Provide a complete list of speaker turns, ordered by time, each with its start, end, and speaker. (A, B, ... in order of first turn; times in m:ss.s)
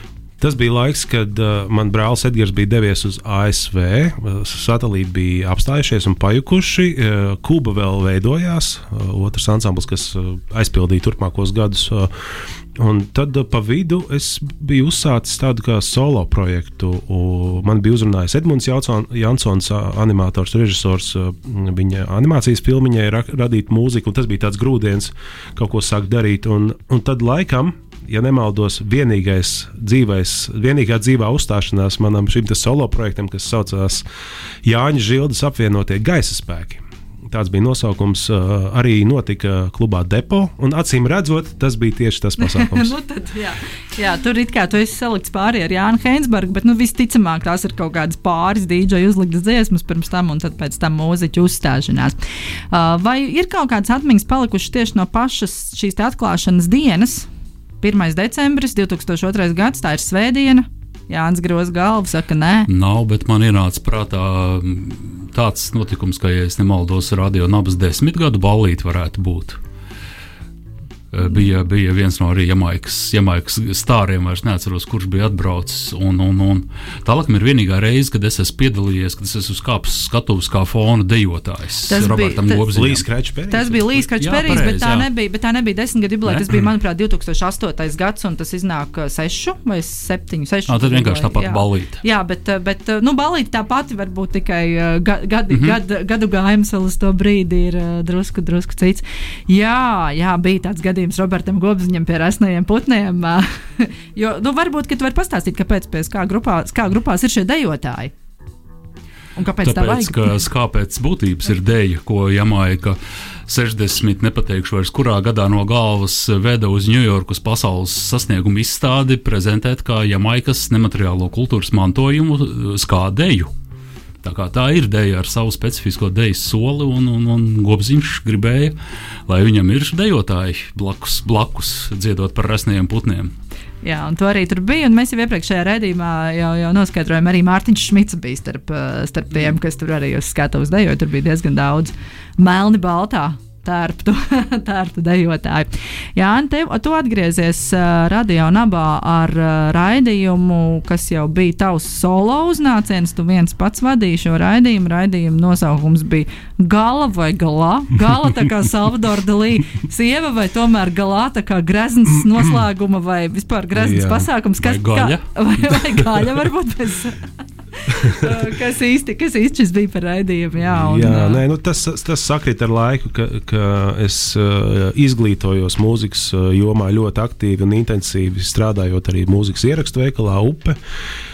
0:00.4-0:34.0 A
0:34.6-0:43.0 A
0:42.4-0:52.2 B
0:52.7-0:57.3 B
0:57.8-1:02.7 B
1:02.7-1:09.6 C
1:11.1-1:23.0 C
1:21.9-1:22.6 B
1:22.7-1:23.8 A
1:23.5-1:48.1 B
1:24.2-1:25.1 C
1:26.3-1:26.6 C
1:30.7-1:32.0 C
1:35.5-1:35.8 C
1:49.4-1:50.3 B
1:49.6-2:03.5 C
2:04.2-2:08.8 C
2:09.3-2:13.3 C
2:13.8-2:47.2 B
2:43.8-2:44.3 A
2:44.6-2:45.3 C
2:47.9-2:51.4 B
2:50.7-3:00.8 A